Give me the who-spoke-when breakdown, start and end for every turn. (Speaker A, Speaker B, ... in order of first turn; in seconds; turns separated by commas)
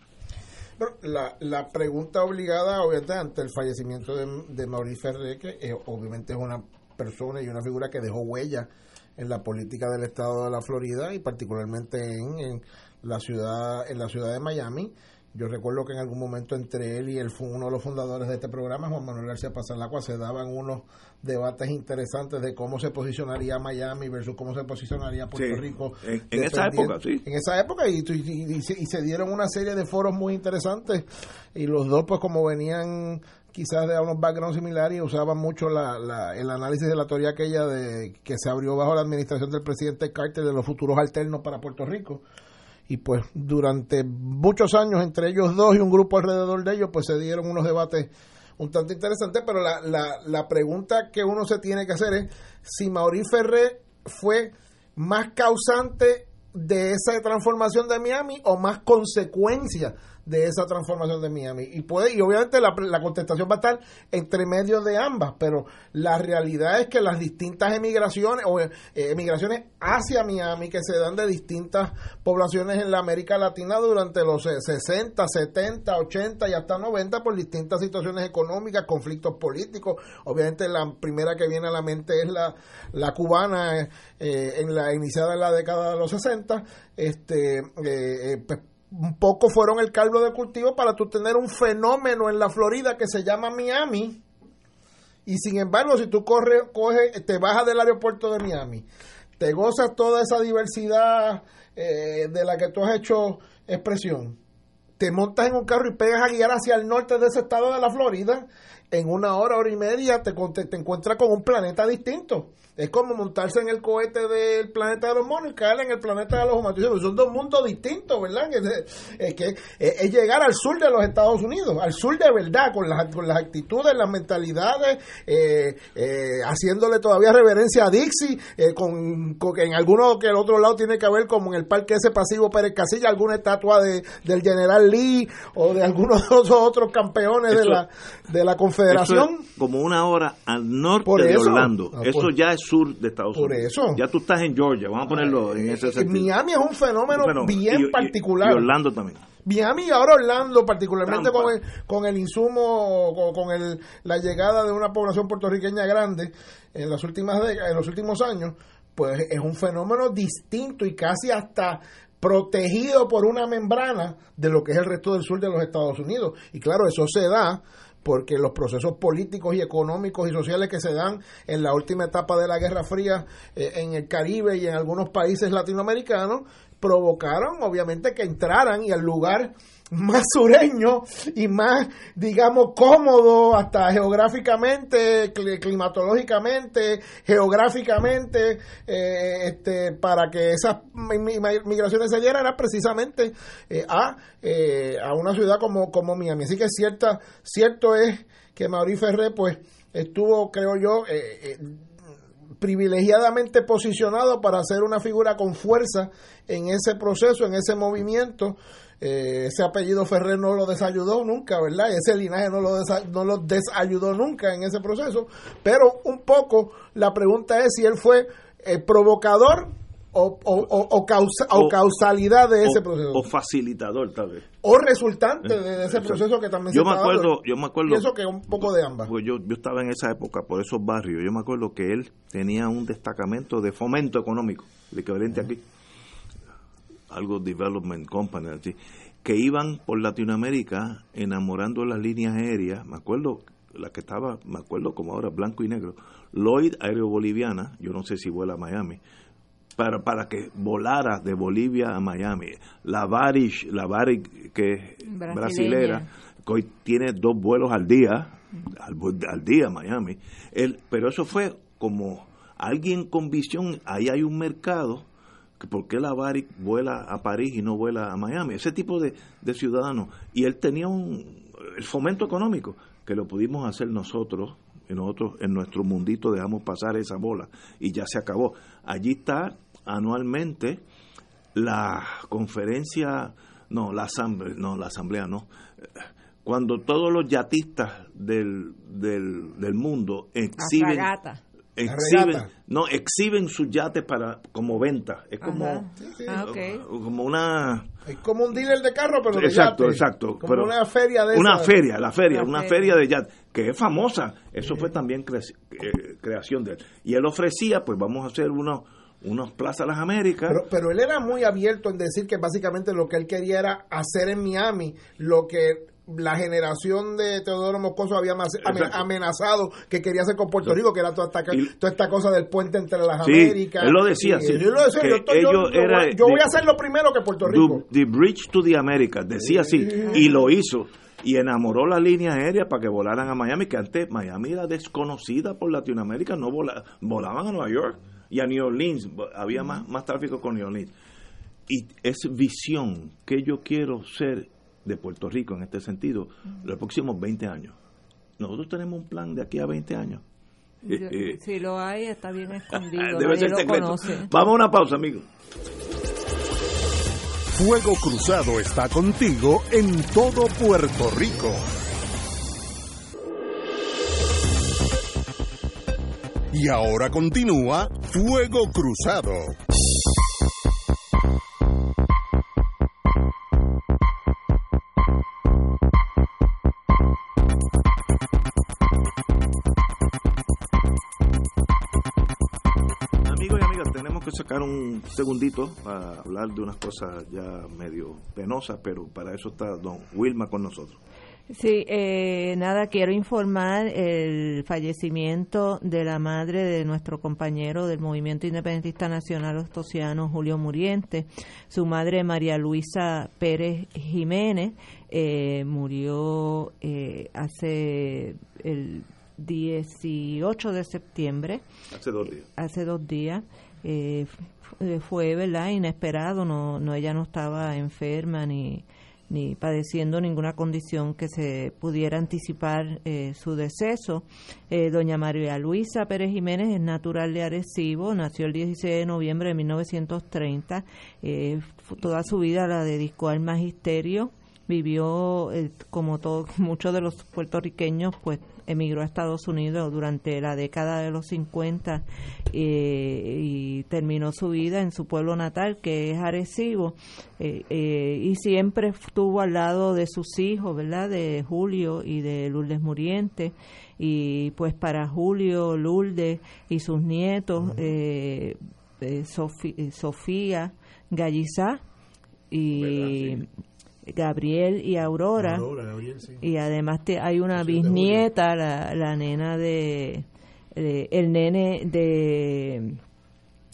Speaker A: 0.8-42.2, Speaker B: 25.3-27.2, Speaker A: 42.9-94.2, Speaker A: 95.2-98.8, Speaker A: 99.4-104.4, Speaker A: 105.0-139.4, Speaker B: 137.5-137.8, Speaker B: 138.9-146.3, Speaker A: 141.1-142.3, Speaker A: 143.3-144.0, Speaker A: 145.1-148.7, Speaker B: 147.1-149.2, Speaker A: 149.4-201.7, Speaker B: 151.0-151.5, Speaker A: 202.6-223.2, Speaker B: 221.5-221.8, Speaker B: 222.6-224.4, Speaker A: 224.6-227.3, Speaker B: 225.4-228.1, Speaker A: 227.8-229.1, Speaker B: 228.6-235.6, Speaker B: 237.1-249.0, Speaker B: 249.8-265.1, Speaker C: 255.1-256.0, Speaker B: 265.6-280.8, Speaker B: 281.5-285.4, Speaker B: 286.0-291.1, Speaker C: 290.6-291.4, Speaker B: 291.8-297.9, Speaker A: 291.9-292.5, Speaker C: 295.4-296.8, Speaker A: 298.1-301.7, Speaker B: 299.3-300.7, Speaker B: 301.3-310.6, Speaker C: 302.3-302.9, Speaker A: 310.5-327.8, Speaker B: 318.6-319.0, Speaker B: 323.2-326.5, Speaker B: 327.4-340.9, Speaker B: 341.7-347.8, Speaker B: 348.4-350.2, Speaker C: 350.8-354.3, Speaker B: 350.9-351.4, Speaker B: 352.9-355.2, Speaker D: 357.5-361.7, Speaker D: 366.5-369.6, Speaker B: 383.2-391.0, Speaker C: 391.5-411.6, Speaker B: 411.9-412.4, Speaker C: 412.5-461.8, Speaker C: 462.5-463.4, Speaker B: 462.9-463.3, Speaker C: 464.1-465.6, Speaker A: 465.4-466.4, Speaker C: 466.4-470.2, Speaker A: 467.6-468.2, Speaker C: 470.8-473.0